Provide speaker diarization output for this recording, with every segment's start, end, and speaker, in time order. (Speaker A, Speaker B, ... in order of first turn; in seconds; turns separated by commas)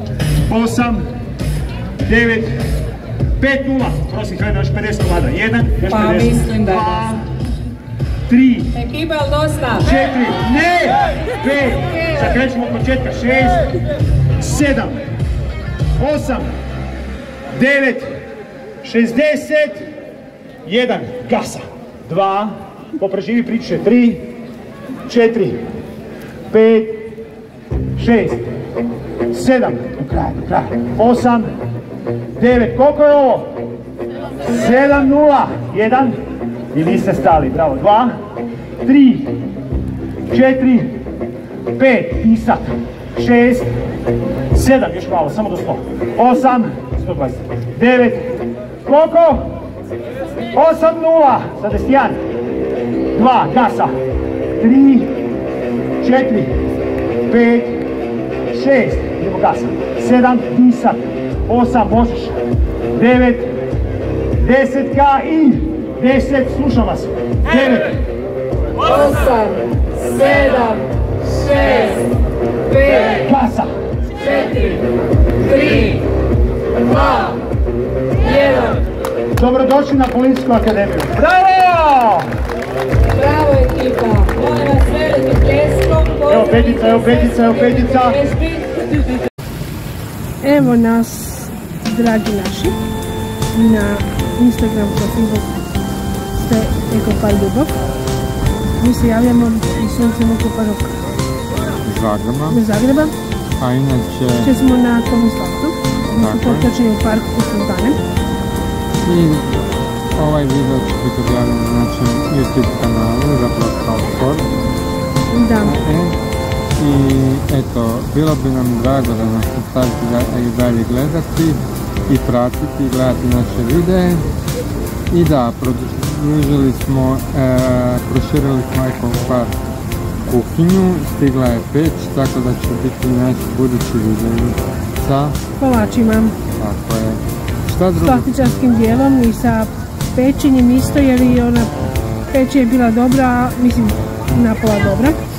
Speaker A: 0.5-1.0, Speaker A: 2.0-2.6, Speaker A: 3.4-7.2, Speaker B: 5.9-7.1, Speaker A: 8.3-8.7, Speaker B: 8.7-10.1, Speaker A: 9.8-13.7, Speaker B: 11.8-12.4, Speaker A: 14.4-15.0, Speaker A: 16.0-16.5, Speaker A: 17.5-18.1, Speaker A: 18.8-19.8, Speaker A: 20.6-24.2, Speaker A: 25.1-25.6, Speaker A: 26.5-27.0, Speaker A: 27.9-28.4, Speaker A: 29.3-31.5, Speaker A: 32.4-33.5, Speaker A: 34.4-36.1, Speaker A: 36.7-38.1, Speaker A: 38.8-39.3, Speaker A: 40.3-40.9, Speaker A: 41.7-43.7, Speaker A: 44.5-48.3, Speaker A: 48.8-49.4, Speaker A: 50.5-52.2, Speaker A: 53.1-53.9, Speaker A: 54.6-55.1, Speaker A: 56.0-56.5, Speaker A: 57.3-57.8, Speaker A: 58.5-62.3, Speaker A: 62.9-63.5, Speaker A: 64.4-67.9, Speaker B: 68.8-72.1, Speaker B: 72.7-73.2, Speaker A: 73.2-73.7, Speaker B: 74.2-74.8, Speaker B: 75.4-76.0, Speaker B: 76.8-77.4, Speaker B: 78.2-78.8, Speaker A: 79.3-82.3, Speaker B: 83.1-88.7, Speaker A: 86.3-88.2, Speaker C: 90.4-92.8, Speaker C: 93.5-95.6, Speaker C: 96.4-97.7, Speaker C: 98.8-101.0, Speaker D: 101.8-102.6, Speaker C: 102.5-103.1, Speaker D: 103.6-104.5, Speaker C: 104.4-108.0, Speaker D: 106.1-106.7, Speaker D: 109.0-109.5, Speaker D: 110.2-114.5, Speaker C: 115.3-115.8, Speaker D: 115.6-116.2, Speaker D: 116.8-124.2, Speaker D: 125.1-129.5, Speaker D: 130.3-135.3, Speaker C: 135.6-136.3, Speaker D: 136.6-138.3, Speaker C: 137.9-141.7, Speaker C: 142.3-145.2